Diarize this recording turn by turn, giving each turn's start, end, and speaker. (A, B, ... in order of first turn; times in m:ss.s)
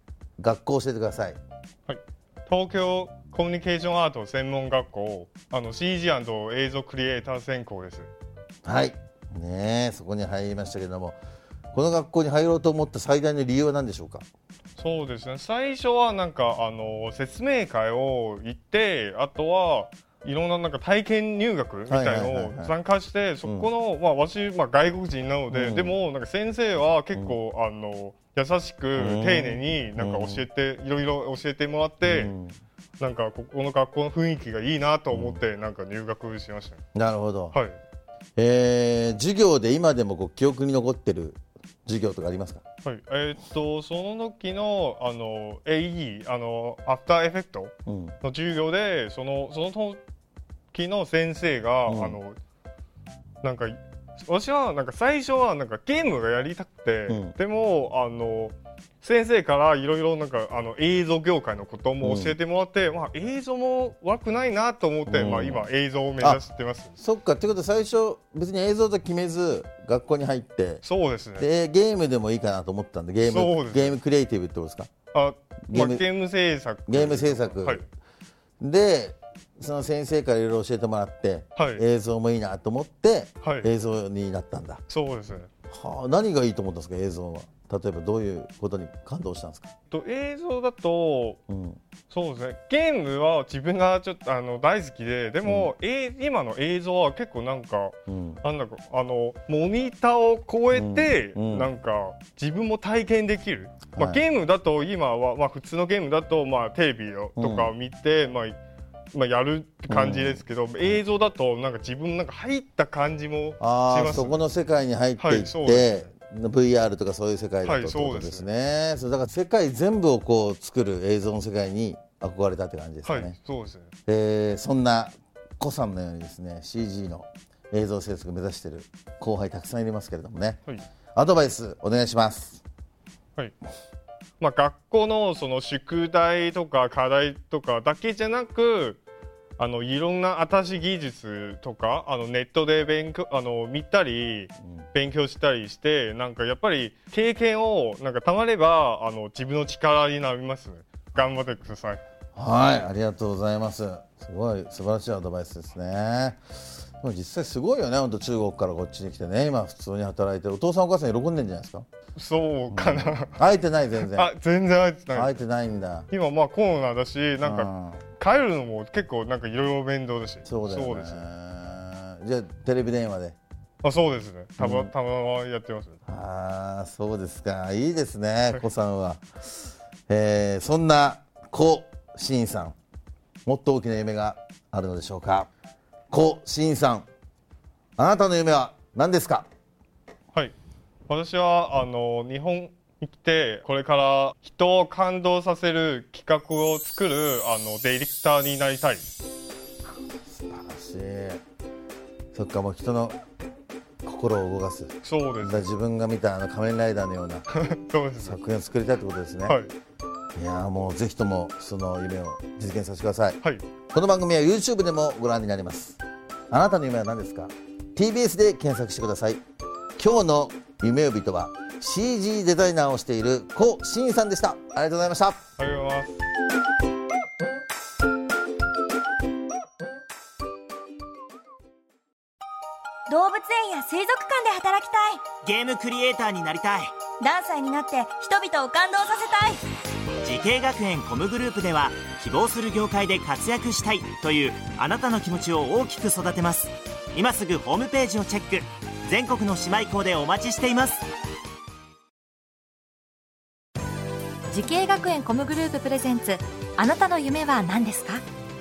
0:00.4-0:01.4 A
0:01.9-0:08.1 B
0:08.6-0:11.2 A
0:11.7-0:14.2 A
0:14.8-0:32.3 B
0:21.9-0:22.7 A
0:23.4-0:23.7 A
0:25.5-0:26.0 A
0:29.0-0:30.4 A
0:32.0-0:32.5 A
0:33.0-0:36.8 B
0:35.1-0:35.4 A
0:36.9-0:37.6 A
0:37.5-0:37.8 B
0:38.4-0:42.6 A
0:42.8-0:50.0 B
0:47.9-0:48.2 A
0:50.7-0:52.4 B
0:51.9-0:52.2 A
0:53.4-1:07.0 B
0:57.1-0:57.3 A
1:02.0-1:02.4 A
1:05.1-1:05.6 A
1:06.2-1:06.4 A
1:07.0-1:10.8 A
1:10.8-1:11.5 B
1:11.4-1:14.9 A
1:13.2-1:13.9 B
1:15.1-1:17.8 B
1:15.7-1:16.1 A
1:16.9-1:17.8 A
1:18.6-1:24.8 A
1:21.6-1:21.8 B
1:23.4-1:23.7 B
1:24.9-1:25.5 B
1:25.7-1:29.7 A
1:29.9-1:31.4 B
1:31.5-1:31.8 A
1:32.1-1:48.6 B
1:35.4-1:35.7 A
1:38.1-1:38.4 A
1:40.7-1:41.7 A
1:43.9-1:44.2 A
1:47.4-1:47.7 A
1:49.1-1:54.4 B
1:49.9-1:51.0 A
1:53.6-2:03.3 A
1:55.2-1:56.1 B
1:57.6-1:58.5 B
2:03.0-2:03.9 B
2:04.1-2:10.6 A
2:11.1-2:12.6 A
2:14.4-2:19.0 B
2:19.6-2:32.0 B
2:32.3-2:36.4 A
2:37.0-2:41.8 A
2:42.1-2:43.4 B
2:42.7-2:44.3 A
2:44.0-2:45.4 B
2:45.1-2:46.1 A
2:46.1-2:51.3 B
2:47.4-2:48.0 A
2:50.4-2:53.4 A
2:53.8-2:56.0 B
2:54.6-2:54.9 A
2:56.1-2:59.2 A
3:00.1-3:02.8 A
3:03.4-3:05.5 A
3:06.1-3:07.1 A
3:08.0-3:09.5 A
3:11.1-3:19.1 B
3:20.3-3:21.4 A
3:22.3-3:23.2 A
3:24.0-3:27.4 A
3:25.0-3:25.7 B
3:27.5-3:28.4 B
3:28.2-3:29.6 A
3:29.4-3:29.7 B
3:30.4-3:33.4 A
3:33.9-3:39.4 A
3:40.0-3:45.4 A
3:45.6-3:46.2 B
3:53.1-3:55.3 C
3:55.4-3:56.9 D
3:57.2-3:59.6 C
4:00.2-4:11.1 D
4:14.5-4:18.2 E